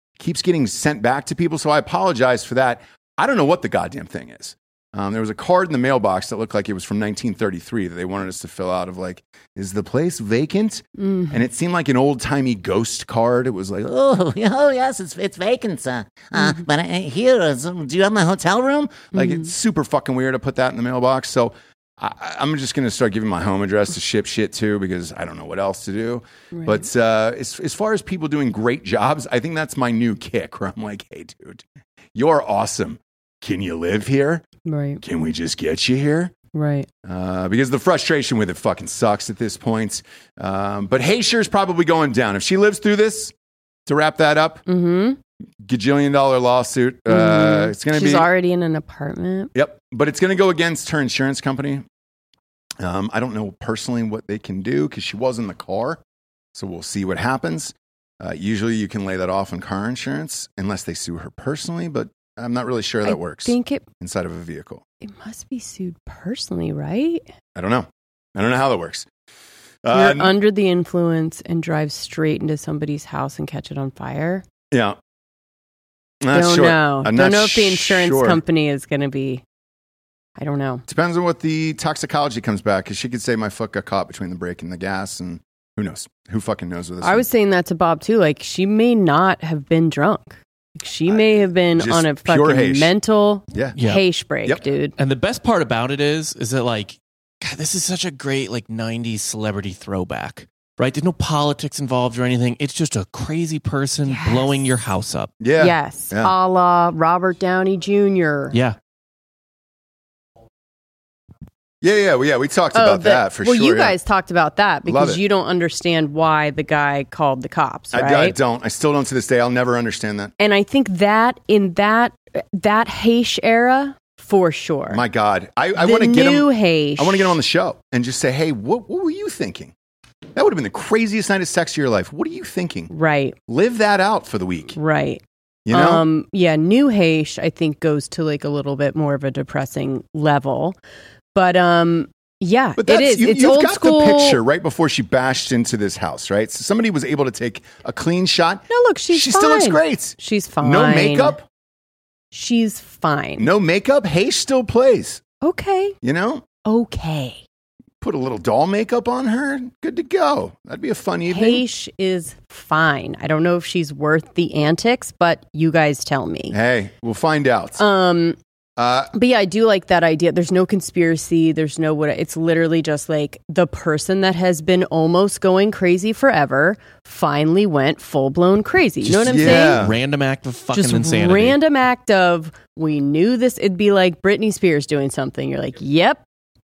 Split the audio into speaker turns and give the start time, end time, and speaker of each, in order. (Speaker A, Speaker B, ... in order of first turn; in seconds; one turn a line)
Speaker A: 0.2-14.1
Speaker B: 11.0-11.4
Speaker C: 14.0-19.0
Speaker B: 16.3-16.6
Speaker A: 18.9-34.4
Speaker B: 19.1-19.5
Speaker B: 26.5-26.8
Speaker B: 34.6-35.0
Speaker A: 35.0-36.3
Speaker B: 36.5-36.9
Speaker A: 37.0-43.3
Speaker A: 43.9-44.6
Speaker B: 44.6-45.2
Speaker A: 45.6-48.3
Speaker B: 47.1-49.5
Speaker A: 49.5-51.8
Speaker A: 52.8-56.0
Speaker A: 56.5-64.8
Speaker B: 63.0-63.8
Speaker B: 65.0-67.2
Speaker A: 67.5-69.1
Speaker A: 69.8-70.3
Speaker B: 69.9-74.4
Speaker A: 74.7-75.0
Speaker A: 76.2-78.4
Speaker B: 76.3-79.4
Speaker B: 80.4-80.8
Speaker A: 80.9-87.2
Speaker B: 87.0-94.9
Speaker A: 91.1-92.9
Speaker D: 93.7-94.0
Speaker D: 95.0-105.3
Speaker B: 104.1-104.5
Speaker A: 105.4-106.3
Speaker B: 105.6-108.5
Speaker A: 111.8-114.0
Speaker B: 112.7-118.3
Speaker A: 114.8-115.2
Speaker A: 117.9-120.3
Speaker B: 120.4-125.0
Speaker A: 124.9-129.7
Speaker B: 125.8-127.3
Speaker A: 130.3-132.9
Speaker B: 132.9-133.3
Speaker A: 133.5-134.8
Speaker B: 134.8-140.8
Speaker A: 135.7-136.0
Speaker B: 141.3-144.4
Speaker A: 142.8-151.4
Speaker B: 148.7-151.4
Speaker B: 152.3-153.5
Speaker A: 153.4-155.2
Speaker B: 155.4-155.9
Speaker A: 156.0-156.4
Speaker B: 156.6-157.4
Speaker A: 158.0-161.6
Speaker B: 161.3-166.5
Speaker A: 166.5-167.8
Speaker B: 167.8-168.4
Speaker A: 168.8-169.1
Speaker B: 169.1-179.8
Speaker D: 179.0-181.6
Speaker A: 179.3-179.9
Speaker B: 180.7-186.2